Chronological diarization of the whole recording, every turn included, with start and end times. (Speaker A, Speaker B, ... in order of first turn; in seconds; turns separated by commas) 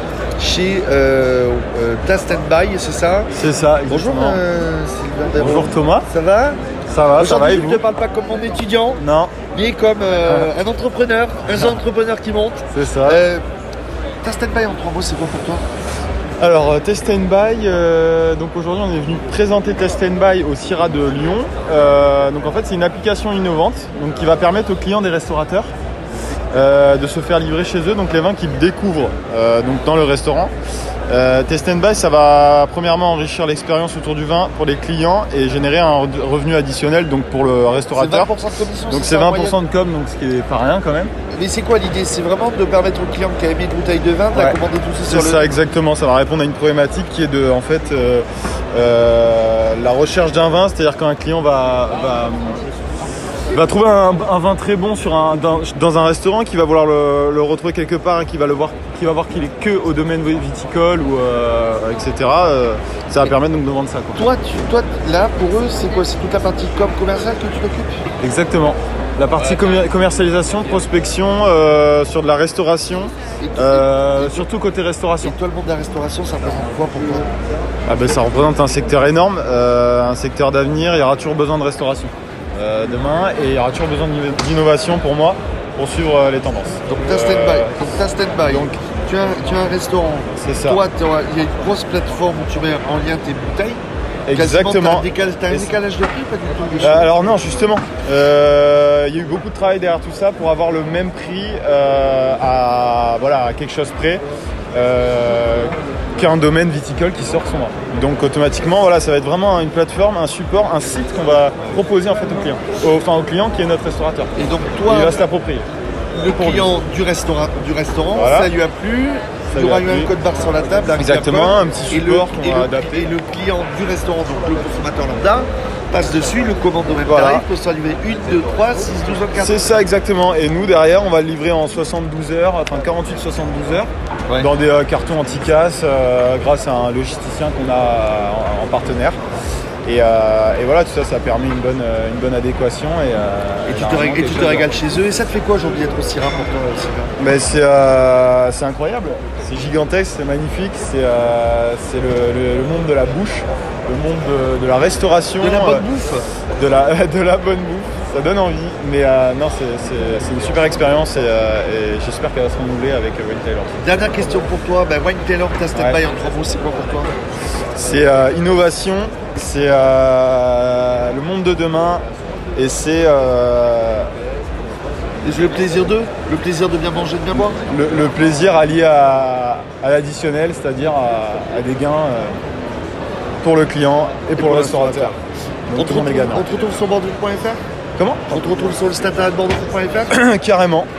Speaker A: 0.4-3.3, Speaker B: 3.3-4.4, Speaker A: 3.9-6.6, Speaker B: 5.4-6.1, Speaker B: 6.9-7.8, Speaker A: 7.2-13.4, Speaker B: 9.0-9.3, Speaker B: 12.7-13.2, Speaker A: 14.2-15.6, Speaker B: 16.4-25.7, Speaker B: 26.5-30.5, Speaker B: 31.1-38.3, Speaker A: 37.9-39.6, Speaker B: 38.9-41.1, Speaker A: 41.3-45.5, Speaker B: 44.3-52.6, Speaker B: 53.5-64.2, Speaker A: 64.2-68.0, Speaker B: 68.2-75.4, Speaker A: 73.4-74.5, Speaker A: 75.2-77.3, Speaker B: 77.9-87.7, Speaker A: 86.9-93.8, Speaker B: 88.5-88.8, Speaker B: 90.4-90.8, Speaker B: 94.3-95.7, Speaker A: 94.3-97.1, Speaker B: 96.8-114.3, Speaker A: 114.4-115.2, Speaker B: 114.9-115.7, Speaker A: 116.1-129.8, Speaker B: 116.3-116.7, Speaker B: 118.1-118.5, Speaker B: 119.5-120.1, Speaker B: 121.0-123.1, Speaker B: 127.1-127.5, Speaker B: 129.4-139.2, Speaker B: 139.8-144.7, Speaker A: 143.7-147.2, Speaker B: 147.2-155.8, Speaker A: 155.4-156.3, Speaker B: 156.6-163.7, Speaker A: 163.8-167.1, Speaker B: 165.7-166.0, Speaker B: 167.8-172.0, Speaker B: 172.6-174.1, Speaker A: 175.2-177.6, Speaker B: 177.3-182.3, Speaker B: 183.4-185.2, Speaker A: 184.4-185.2, Speaker B: 185.7-186.5, Speaker A: 185.8-187.6, Speaker B: 188.0-188.3, Speaker A: 188.3-190.1, Speaker B: 190.1-190.9